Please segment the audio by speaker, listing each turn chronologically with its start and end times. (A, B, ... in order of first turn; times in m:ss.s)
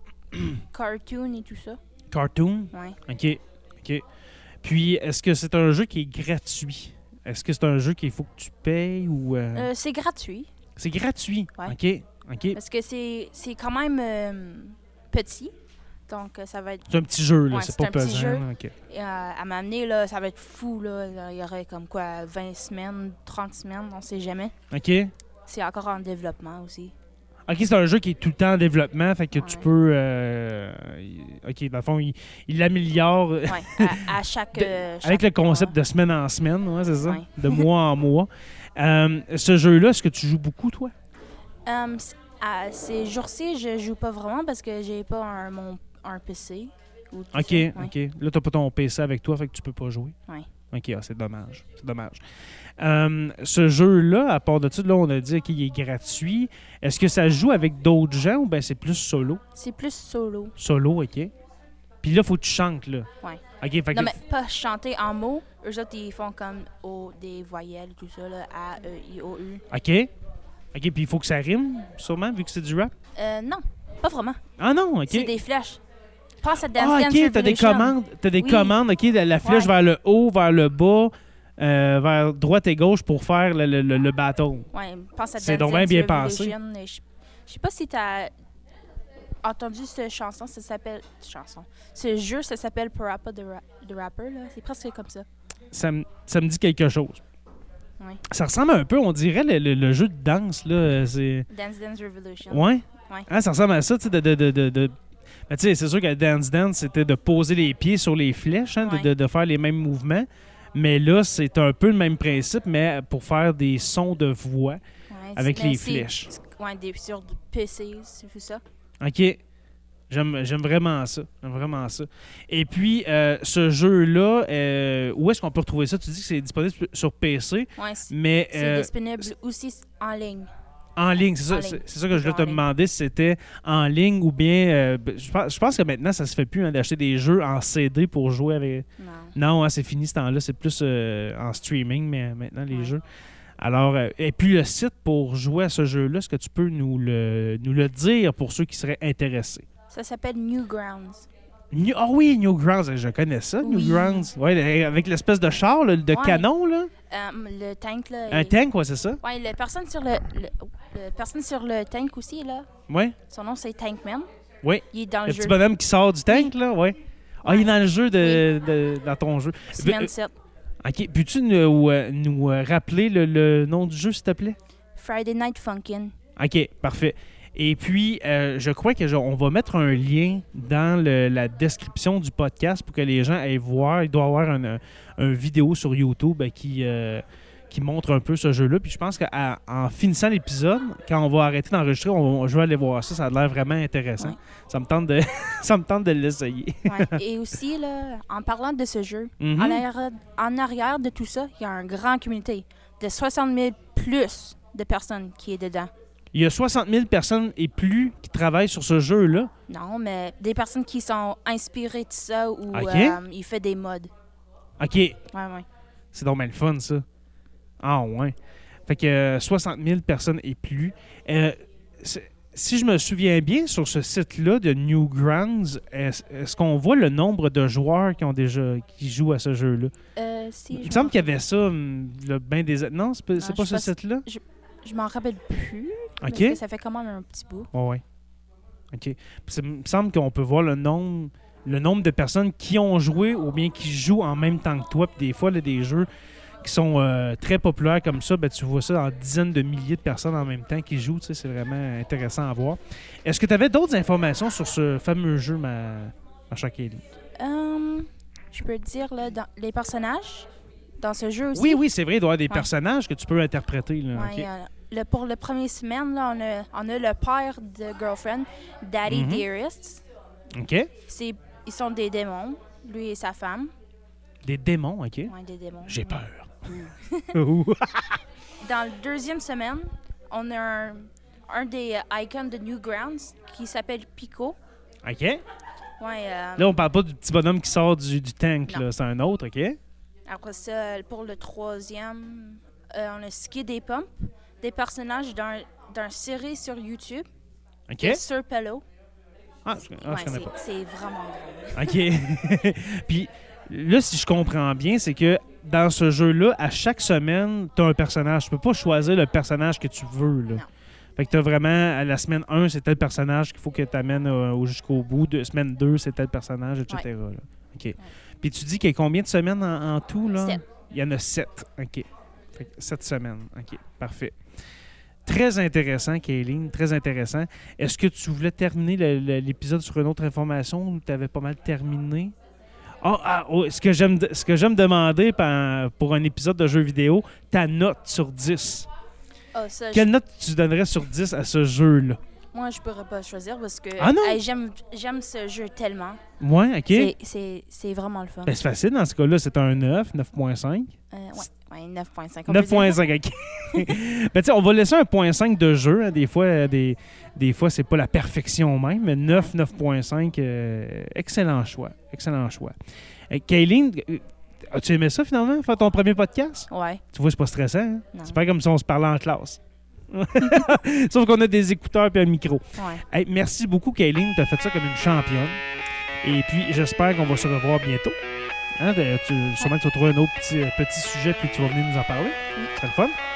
0:00.7-0:01.8 A
0:02.1-0:04.0 B
0:02.7-0:03.0 A
0:04.6-0:09.7 B
0:09.6-0:10.5 A
0:10.8-0:12.6 B
0:12.5-0:15.5 A
0:16.1-0:24.5 A
0:16.9-0:18.7 B
0:24.7-0:25.1 B
0:25.5-0:26.9 A
0:27.5-0:40.9 B
0:29.3-0:29.7 A
0:33.5-0:35.8 A
0:37.0-0:37.7 A
0:41.7-0:47.9 A
0:47.3-0:50.2 B
0:50.7-0:52.2 B
0:52.8-0:59.4 B
0:59.5-1:00.6 A
1:00.6-1:01.3 B
1:02.0-1:03.1 B
1:03.2-1:09.6 A
1:03.6-1:04.2 B
1:09.7-1:10.1 B
1:10.7-1:12.9 B
1:13.2-1:14.4 A
1:14.6-1:15.4 B
1:15.1-1:15.8 A
1:16.4-1:18.8 A
1:16.7-1:24.7 B
1:19.4-1:19.7 A
1:24.7-1:28.3 A
1:25.4-1:26.5 B
1:29.4-1:35.3 A
1:35.7-1:37.2 B
1:38.0-1:38.2 A
1:38.3-1:41.5 B
1:41.5-1:43.3 A
1:42.5-1:44.9 B
1:45.5-1:54.8 B
1:48.8-1:49.1 A
1:55.1-1:58.6 A
1:55.4-1:56.3 B
1:59.0-1:59.4 B
2:00.1-2:09.3 B
2:07.8-2:10.5 A
2:11.0-2:23.0 B
2:11.5-2:12.6 A
2:19.0-2:19.4 A
2:23.6-2:29.7 B
2:29.9-2:31.3 A
2:31.7-2:36.9 B
2:33.6-2:34.3 A
2:36.1-2:36.5 A
2:37.1-2:38.6 A
2:38.3-2:39.2 B
2:39.2-2:42.7 A
2:42.9-2:43.2 B
2:43.3-2:44.3 A
2:44.6-2:50.1 B
2:44.9-2:45.6 A
2:47.4-2:48.5 A
2:49.7-2:50.3 A
2:50.8-2:54.6 B
2:55.0-2:56.1 A
2:56.4-3:17.2 B
3:16.9-3:25.9 A
3:19.4-3:19.8 B
3:26.3-3:29.5 B
3:29.7-3:34.1 A
3:32.7-3:33.2 B
3:34.8-3:35.2 B
3:35.3-3:35.7 A
3:36.1-3:37.0 B
3:37.8-3:38.4 B
3:38.9-3:49.9 B
3:50.2-3:51.3 A
3:50.7-3:54.2 B
3:53.4-3:57.7 A
3:56.2-3:56.6 B
3:57.7-3:58.0 B
3:58.9-4:06.1 B
4:06.6-4:17.0 B
4:17.4-4:20.5 A
4:21.0-4:21.8 A
4:21.5-4:24.5 B
4:24.1-4:30.0 A
4:29.1-4:29.4 B
4:30.6-4:30.9 B
4:31.0-4:33.7 A
4:34.4-4:35.3 B
4:35.3-4:36.2 A
4:35.9-4:38.2 B
4:36.8-4:37.4 A
4:38.6-4:44.6 A
4:45.0-4:45.4 B
4:46.0-4:46.8 A
4:46.6-4:49.8 B
4:50.3-4:57.3 A
4:57.9-4:58.2 B
4:58.0-4:58.8 A
4:59.6-5:00.5 B
5:00.0-5:02.0 A
5:01.8-5:10.6 B
5:11.2-5:24.4 B
5:20.4-5:20.6 A
5:25.3-5:32.4 B
5:33.0-5:38.9 B
5:39.5-5:40.1 A
5:39.9-5:42.2 B
5:42.5-5:46.2 A
5:44.0-5:44.4 B
5:46.4-5:47.1 B
5:46.9-5:48.6 A
5:48.5-5:51.5 B
5:51.1-5:53.0 A
5:52.5-6:02.8 B
6:03.3-6:09.6 B
6:06.7-6:07.0 A
6:10.1-6:15.6 B
6:12.8-6:13.0 A
6:16.2-6:18.2 B
6:18.8-6:23.2 B